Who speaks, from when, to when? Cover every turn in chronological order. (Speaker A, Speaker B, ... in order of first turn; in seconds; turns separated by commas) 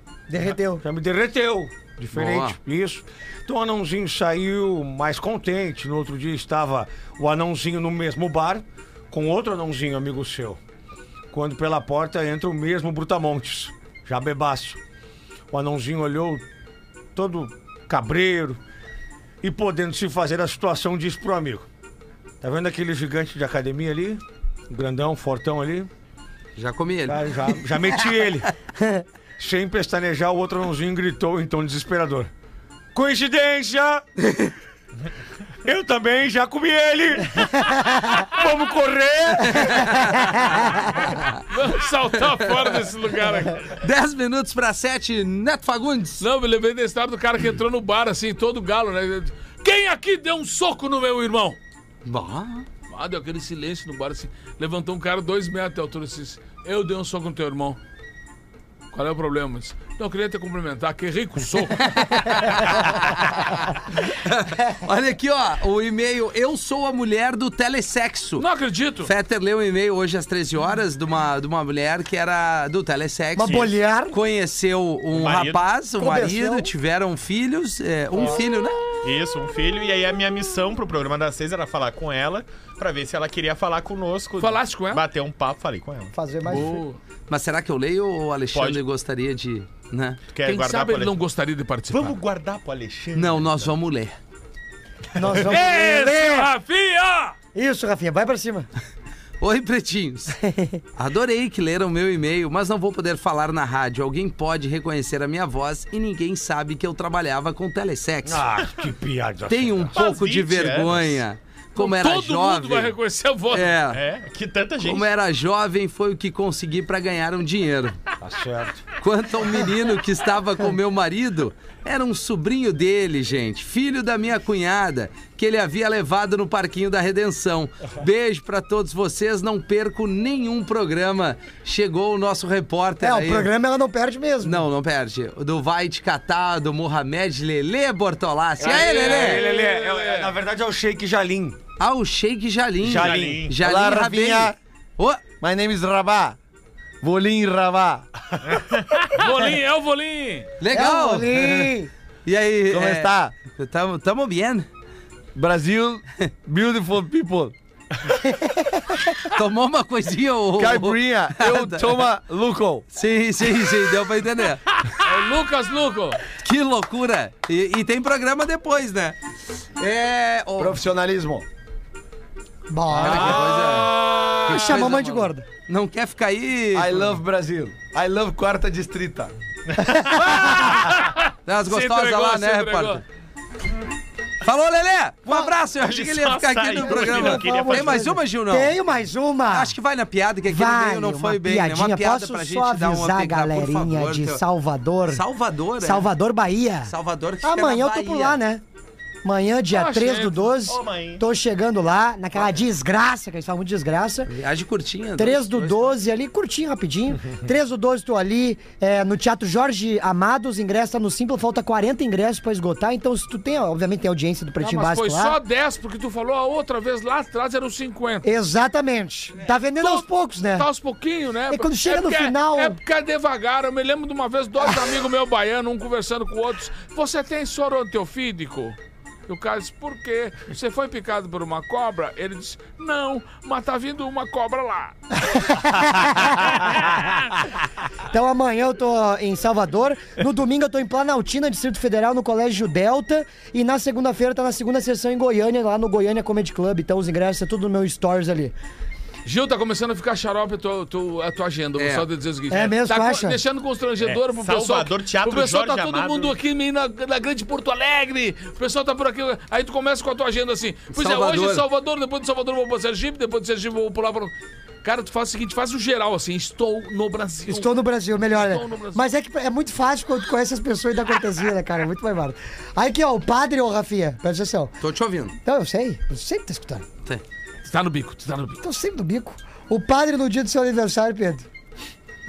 Speaker A: 0.3-0.8, Speaker B: 0.8-10.6, Speaker C: 2.1-2.6, Speaker B: 11.3-14.8, Speaker B: 15.5-16.4, Speaker B: 17.1-18.6, Speaker B: 19.4-21.7, Speaker B: 22.4-25.9, Speaker C: 26.6-27.9, Speaker B: 27.1-28.5, Speaker B: 29.4-32.3, Speaker B: 32.9-34.0, Speaker C: 34.2-34.5, Speaker B: 35.6-40.2, Speaker C: 39.4-40.4, Speaker C: 41.1-41.4, Speaker D: 41.5-43.8, Speaker C: 43.7-46.2, Speaker D: 46.2-51.6, Speaker C: 52.0-52.7, Speaker D: 52.9-57.8, Speaker D: 58.9-62.9, Speaker C: 61.8-68.5, Speaker D: 68.4-69.1, Speaker C: 69.0-78.8, Speaker A: 73.4-74.2, Speaker E: 73.5-73.7, Speaker E: 75.1-75.7, Speaker A: 76.0-76.7, Speaker E: 79.0-86.1, Speaker D: 84.4-85.0, Speaker A: 86.1-86.8, Speaker D: 86.5-87.0, Speaker C: 87.3-90.2, Speaker E: 88.5-88.8, Speaker E: 90.3-91.2, Speaker D: 90.4-92.2, Speaker E: 91.9-93.7, Speaker C: 93.1-94.2, Speaker A: 95.1-96.5, Speaker D: 95.3-97.4, Speaker A: 97.5-98.7, Speaker C: 99.4-100.4, Speaker A: 100.3-100.8, Speaker C: 101.0-108.5, Speaker B: 108.2-110.0, Speaker C: 109.5-112.9, Speaker E: 110.0-111.2, Speaker D: 111.8-113.8, Speaker C: 113.5-114.0, Speaker E: 113.9-115.1, Speaker C: 114.8-118.0, Speaker B: 118.2-118.8, Speaker C: 119.0-133.5, Speaker A: 133.0-134.6, Speaker C: 134.4-139.4, Speaker D: 138.6-140.3, Speaker B: 138.6-141.6, Speaker C: 141.8-145.2, Speaker B: 142.8-143.5, Speaker E: 142.9-143.6, Speaker F: 143.6-144.6, Speaker F: 145.4-146.4, Speaker F: 147.0-148.1, Speaker E: 148.5-149.1, Speaker D: 149.1-150.5, Speaker C: 150.6-154.7, Speaker A: 150.7-151.9, Speaker F: 152.7-153.3, Speaker F: 155.3-157.5, Speaker A: 158.2-159.0, Speaker C: 159.3-162.1, Speaker F: 160.6-162.9, Speaker C: 162.9-164.6, Speaker D: 164.9-166.2, Speaker C: 166.3-170.8, Speaker F: 170.6-171.4, Speaker A: 172.7-175.5, Speaker C: 172.9-177.0, Speaker D: 173.9-174.8, Speaker F: 176.7-179.3, Speaker A: 179.8-180.8, Speaker D: 180.2-183.0, Speaker C: 181.4-183.0, Speaker C: 184.4-188.7, Speaker E: 185.7-188.2, Speaker A: 186.8-189.7, Speaker C: 189.5-194.4, Speaker A: 190.4-195.2, Speaker C: 195.1-196.1, Speaker A: 195.8-196.9, Speaker C: 196.9-198.4, Speaker A: 197.4-198.6, Speaker A: 199.2-204.3, Speaker D: 199.7-200.6, Speaker E: 200.6-201.2, Speaker C: 204.3-206.0, Speaker A: 205.2-215.4, Speaker D: 214.6-218.3, Speaker A: 218.2-220.7, Speaker D: 219.8-228.8, Speaker A: 221.5-222.8, Speaker D: 229.3-234.9, Speaker A: 235.2-236.9, Speaker D: 236.8-237.1, Speaker A: 238.1-248.6, Speaker D: 249.2-269.0, Speaker C: 251.8-252.1, Speaker A: 252.5-253.4, Speaker E: 254.0-256.3, Speaker C: 260.9-261.6, Speaker A: 267.5-274.8, Speaker C: 274.8-275.3, Speaker A: 275.4-276.9, Speaker D: 277.6-278.6, Speaker A: 278.6-281.5